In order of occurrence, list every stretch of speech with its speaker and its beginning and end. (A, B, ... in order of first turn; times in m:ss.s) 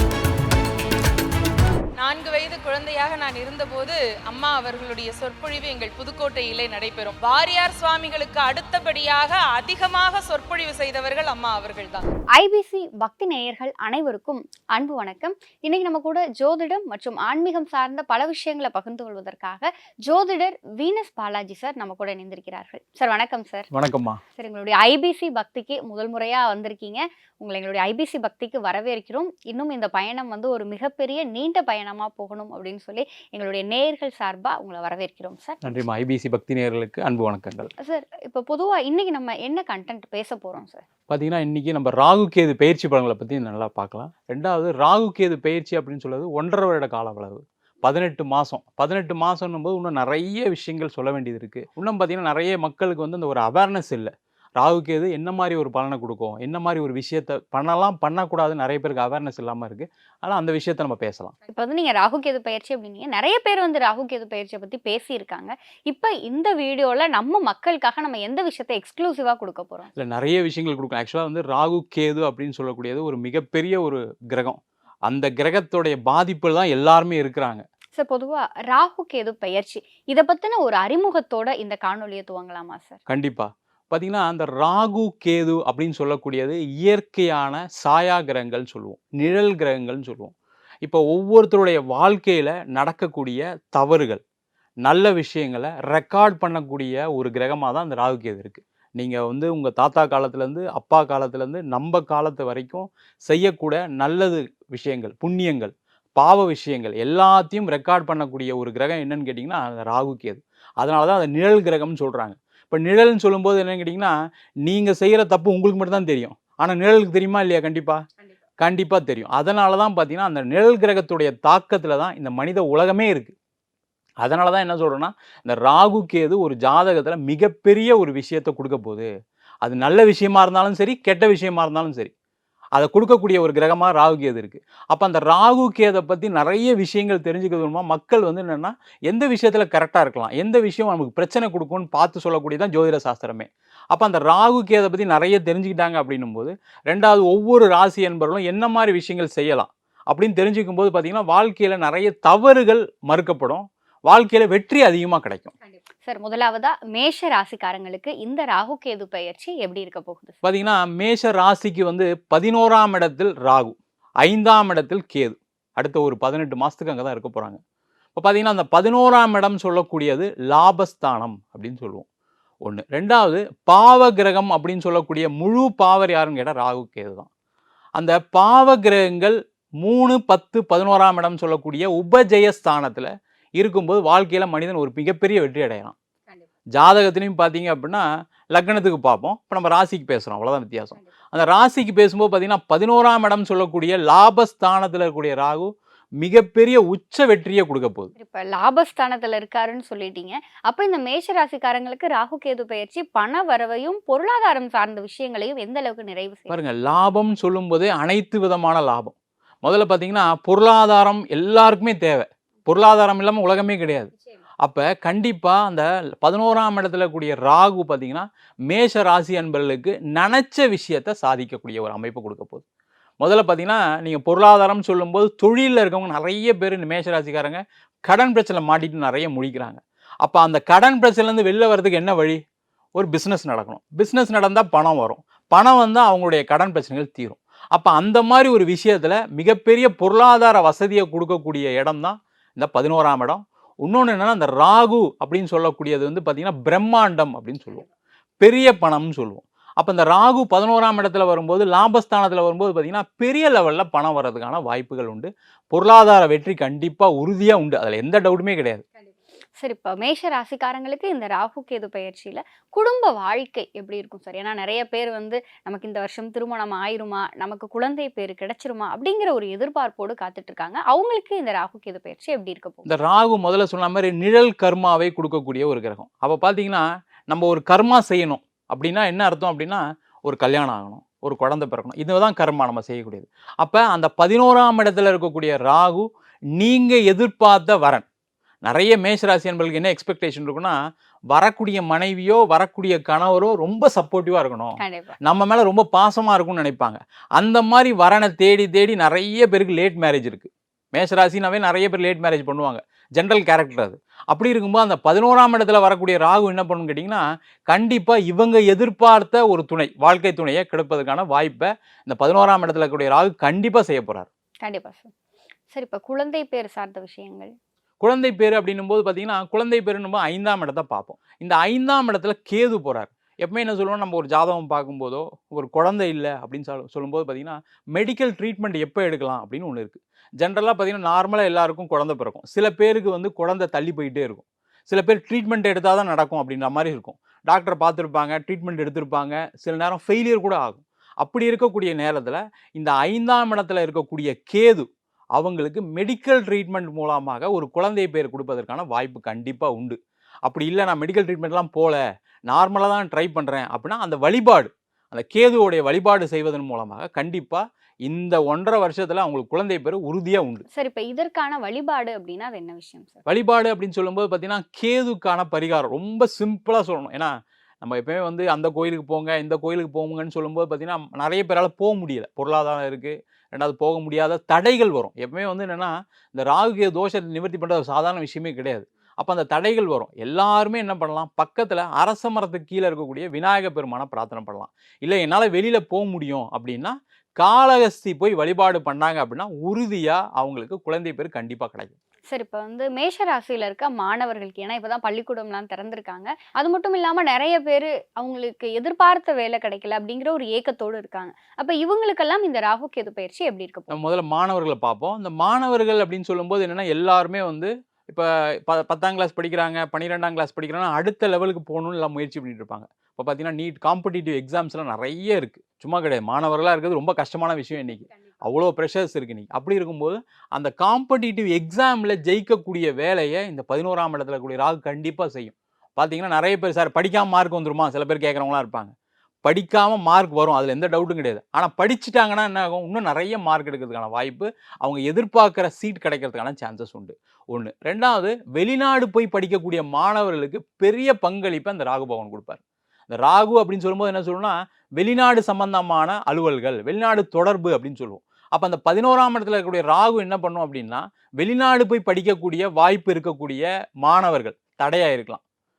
0:02.0-0:12.0 A
0:12.3-0:23.7 B
0:23.7-0:24.2 C
0:24.4-0:35.8 B
0:35.6-0:37.7 C
0:37.8-0:40.8 B
0:41.1-1:01.3 C
1:01.5-1:09.9 B
1:09.9-1:17.6 C
1:17.9-1:23.0 B
1:23.1-1:30.3 C
1:30.8-1:34.2 C
1:34.8-1:54.1 C
1:54.6-1:58.0 C
1:58.6-2:03.3 C
2:04.2-2:09.1 C
2:09.6-2:12.1 C
2:12.7-2:35.5 C
2:36.0-2:40.3 B
2:40.4-2:47.6 C
2:48.1-2:52.0 C
2:52.6-2:57.3 C
2:58.0-3:05.9 C
3:06.7-3:18.1 C
3:18.2-3:26.5 B
3:26.5-3:34.1 C
3:34.6-3:42.6 C
3:43.2-3:52.4 C
3:53.0-4:07.8 C
4:08.4-4:18.8 C
4:19.6-4:32.8 B
4:32.9-4:48.0 C
4:48.6-4:50.8 C
4:51.3-5:14.3 C
4:54.8-4:55.1 B
5:14.6-5:15.1 B
5:15.7-5:17.5 B
5:18.0-6:00.6 C
6:00.7-6:03.2 B
6:03.3-6:32.0 C
6:32.3-6:43.9 B
6:43.9-7:08.9 C
7:09.4-7:35.4 C